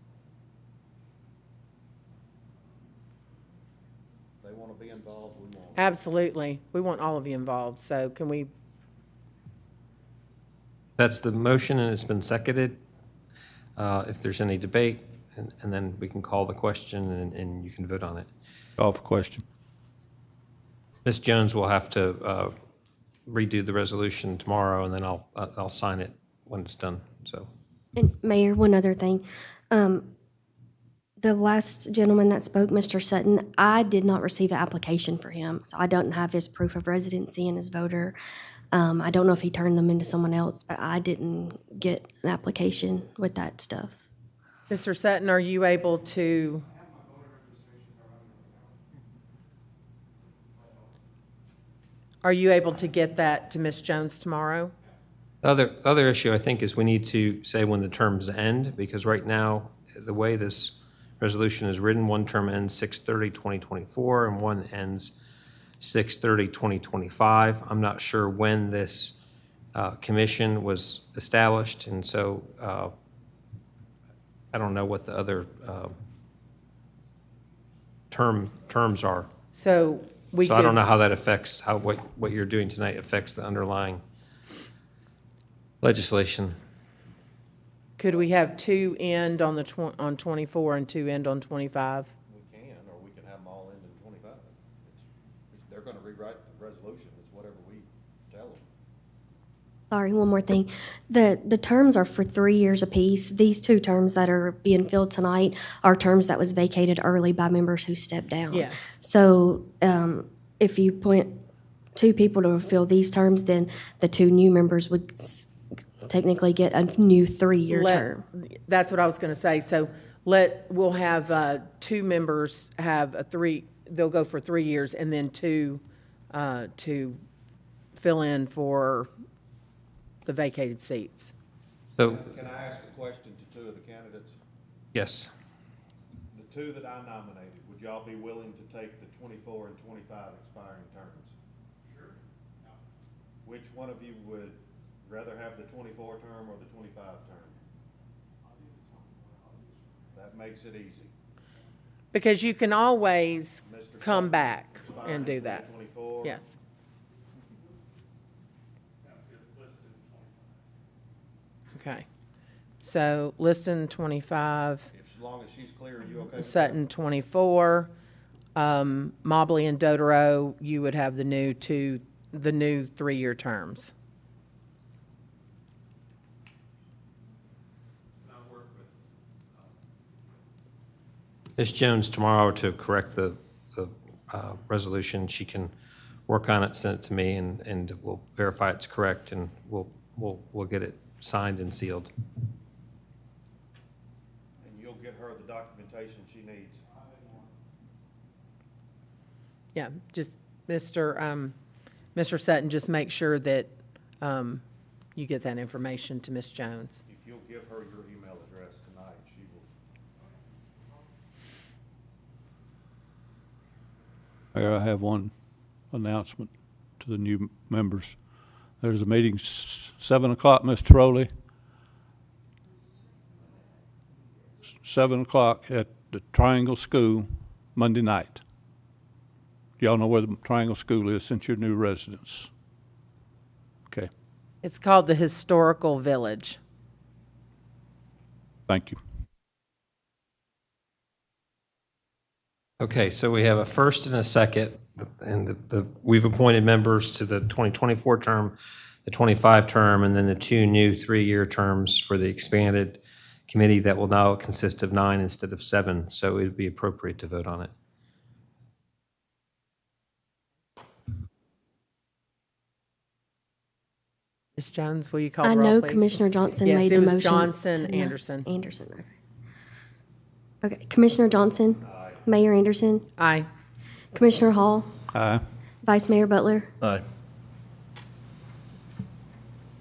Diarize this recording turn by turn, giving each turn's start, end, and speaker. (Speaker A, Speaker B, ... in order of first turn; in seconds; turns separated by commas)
Speaker A: 4.4-5.9, Speaker B: 5.8-8.5, Speaker C: 11.0-12.8, Speaker C: 13.8-18.3, Speaker D: 18.8-19.4, Speaker C: 21.1-22.5, Speaker C: 23.3-27.5, Speaker E: 27.9-30.1, Speaker E: 31.2-38.2, Speaker E: 38.7-44.0, Speaker B: 44.7-46.6, Speaker B: 52.2-54.7, Speaker C: 55.4-65.1, Speaker C: 65.8-69.2, Speaker C: 69.8-72.9, Speaker C: 74.5-75.9, Speaker C: 78.1-79.3, Speaker B: 79.5-80.8, Speaker C: 80.4-84.0, Speaker C: 85.8-86.5, Speaker B: 88.0-92.1, Speaker A: 92.3-98.7, Speaker E: 99.9-111.3, Speaker B: 108.5-109.0, Speaker E: 112.0-115.5, Speaker E: 116.0-118.2, Speaker B: 117.7-127.2, Speaker B: 128.0-129.1, Speaker B: 130.2-131.3, Speaker A: 132.0-134.4, Speaker C: 134.9-135.3, Speaker A: 136.3-141.3, Speaker A: 143.4-147.6, Speaker A: 150.1-151.1, Speaker B: 152.1-155.7, Speaker A: 153.6-156.4, Speaker B: 156.2-156.6, Speaker B: 161.8-162.1, Speaker B: 162.8-164.9, Speaker A: 164.9-166.8, Speaker B: 166.4-167.9, Speaker B: 168.6-173.9, Speaker C: 181.6-185.7, Speaker C: 186.3-192.1, Speaker A: 194.6-196.8, Speaker B: 199.7-201.6, Speaker B: 202.2-204.6, Speaker B: 205.2-207.0, Speaker A: 207.1-209.7, Speaker D: 214.5-215.3, Speaker D: 215.9-218.2, Speaker D: 218.8-221.3, Speaker D: 224.7-228.4, Speaker D: 229.8-232.5, Speaker B: 234.6-236.6, Speaker D: 238.7-239.0, Speaker C: 242.8-257.7, Speaker B: 264.6-268.4, Speaker E: 265.4-269.2, Speaker E: 270.6-273.1, Speaker A: 271.8-272.3, Speaker B: 273.2-273.5, Speaker E: 274.1-274.9, Speaker D: 275.1-275.4, Speaker E: 275.8-276.7